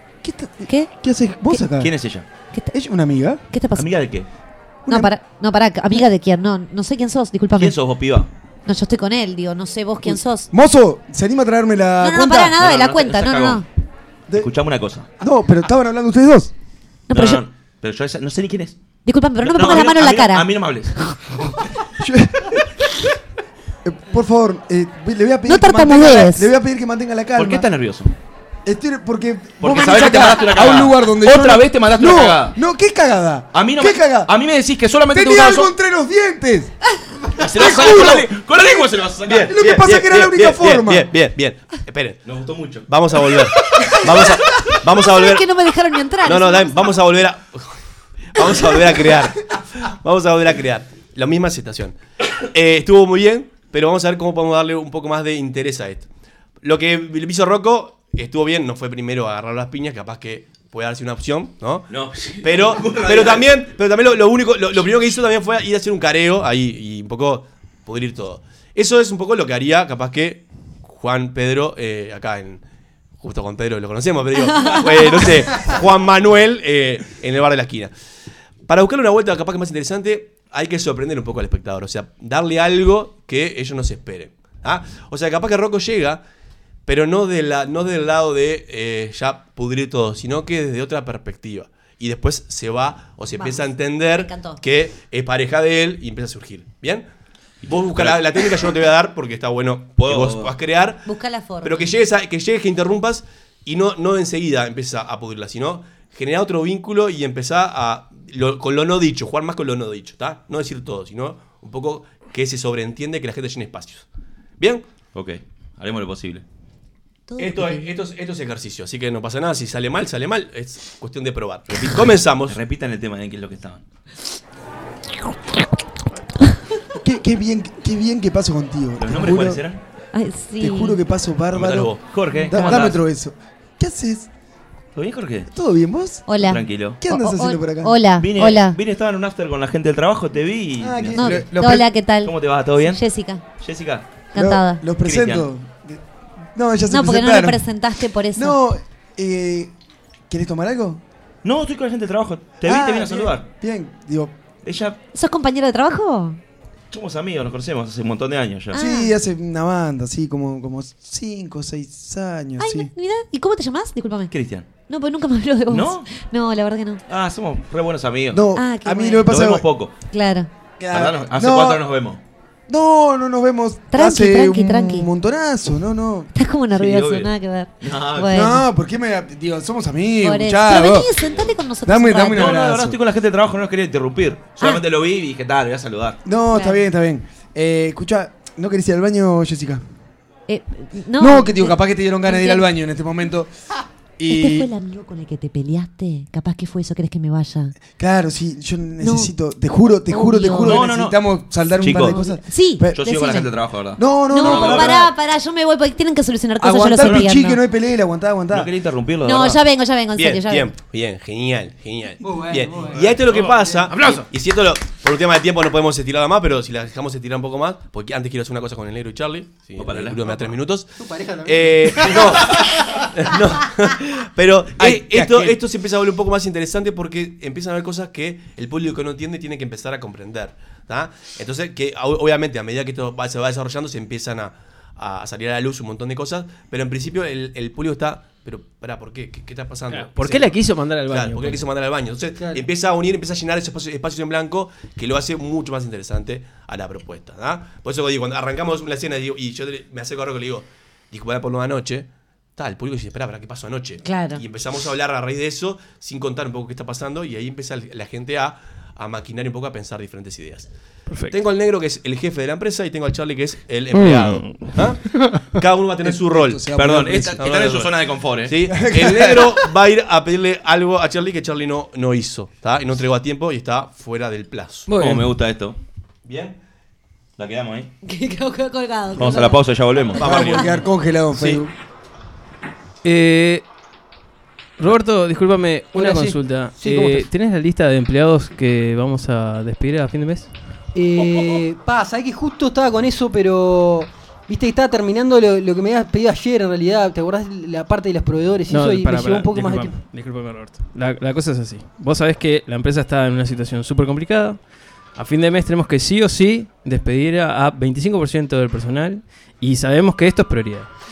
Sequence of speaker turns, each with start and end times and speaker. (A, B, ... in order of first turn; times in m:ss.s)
0:00.2-0:01.9 A
0:00.7-0:00.9 B
0:01.7-0:02.2 C
0:02.7-0:03.4 A
0:03.5-0:04.1 B
0:03.7-0:04.3 C
0:04.9-0:05.1 A
0:04.9-0:08.0 B
0:07.5-0:08.3 C
0:08.6-0:10.5 B
0:10.0-0:12.6 A
0:12.0-0:13.6 B
0:12.5-0:13.6 C
0:14.3-0:15.1 C
0:15.2-0:16.5 A
0:17.1-0:17.4 B
0:17.1-0:18.8 C
0:19.0-0:21.2 B
0:19.4-0:21.6 C
0:22.0-0:22.6 A
0:23.8-0:27.7 A
0:25.4-0:26.5 B
0:27.4-0:28.1 C
0:28.6-0:34.3 A
0:29.6-0:32.6 C
0:33.5-0:35.7 C
0:35.1-0:36.7 A
0:37.4-0:39.5 C
0:37.6-0:38.3 A
0:39.2-0:42.2 D
0:39.5-0:41.1 A
0:42.2-0:42.9 C
0:42.9-0:45.4 D
0:45.0-0:46.8 B
0:46.2-0:47.8 D
0:48.3-0:52.0 D
0:52.5-0:56.0 D
0:56.6-1:12.6 D
1:01.9-1:03.5 C
1:13.2-1:17.9 D
1:14.5-1:15.2 B
1:18.6-1:26.2 D
1:26.8-1:37.0 D
1:33.3-1:34.6 B
1:37.6-1:38.4 C
1:37.6-1:41.1 D
1:40.0-1:40.5 C
1:41.0-1:41.9 B
1:41.6-1:54.0 D
1:54.6-1:54.8 D
1:55.1-1:56.4 C
1:57.3-1:57.9 B
1:57.4-2:02.6 D
2:01.7-2:03.8 C
2:06.9-2:09.6 A
2:09.0-2:09.8 C
2:10.1-2:11.0 B
2:10.6-2:14.3 A
2:11.5-2:12.0 D
2:12.1-2:13.0 C
2:14.9-2:15.5 C
2:15.5-2:16.3 A
2:16.2-2:18.8 B
2:16.3-2:17.0 C
2:17.0-2:18.0 A
2:18.1-2:24.2 C
2:20.8-2:21.9 A
2:21.1-2:23.4 B
2:24.3-2:24.9 B
2:24.3-2:26.0 A
2:24.9-2:25.4 C
2:26.5-2:27.7 A
2:26.9-2:28.6 B
2:28.3-2:29.7 A
2:30.3-2:31.0 A
2:31.4-2:33.5 C
2:32.6-2:34.3 A
2:34.6-2:35.0 C
2:35.1-2:36.4 B
2:36.9-2:38.8 C
2:38.7-2:39.2 B
2:38.7-2:42.9 A
2:42.6-2:47.0 B
2:44.3-2:44.7 C
2:45.7-2:46.2 C
2:47.1-2:48.5 C
2:48.3-2:49.6 A
2:48.5-2:49.4 B
2:49.2-2:49.9 C
2:50.1-2:50.5 B
2:50.8-2:51.8 A
2:50.9-2:52.2 C
2:52.7-2:56.3 A
2:53.9-2:55.1 B
2:56.3-2:58.6 B
2:56.7-2:58.4 C
2:58.3-3:01.1 A
3:00.2-3:02.6 B
3:01.8-3:03.0 A
3:02.2-3:06.2 C
3:06.2-3:09.8 A
3:06.5-3:06.8 B
3:10.5-3:12.7 B
3:11.2-3:13.5 A
3:14.2-3:14.7 A
3:14.3-3:17.8 B
3:18.0-3:23.0 A
3:19.0-3:19.3 B
3:20.1-3:20.9 B
3:20.6-3:22.2 C
3:22.0-3:23.6 B
3:22.9-3:25.1 C
3:24.0-3:25.1 A
3:24.2-3:27.6 B
3:24.4-3:24.9 D
3:26.6-3:28.7 A
3:27.0-3:27.4 C
3:28.5-3:29.6 C
3:29.2-3:30.7 B
3:30.1-4:20.7 D
3:32.2-3:33.8 E
3:33.3-3:34.2 F
3:39.8-3:40.4 C
3:41.0-3:42.4 E
3:44.8-3:45.6 A
3:59.9-4:01.7 F
4:02.4-4:02.6 E
4:14.0-4:14.4 B
4:21.1-4:21.4 F
4:21.3-4:26.7 D
4:23.9-4:25.5 F
4:26.0-4:27.4 A
4:26.7-4:28.6 C
4:27.4-4:34.9 D
4:28.7-4:29.6 A
4:34.9-4:35.3 F
4:35.0-4:35.8 C
4:36.2-4:36.6 D
4:37.4-4:37.9 C
4:38.0-4:39.8 B
4:39.1-4:40.5 C
4:40.2-4:40.8 D
4:40.2-4:41.7 A
4:41.3-4:41.6 D
4:43.0-4:43.6 F
4:44.8-4:50.5 F
4:45.9-4:47.3 E
4:50.9-5:00.0 E
4:58.7-5:04.6 F
5:05.1-5:10.9 F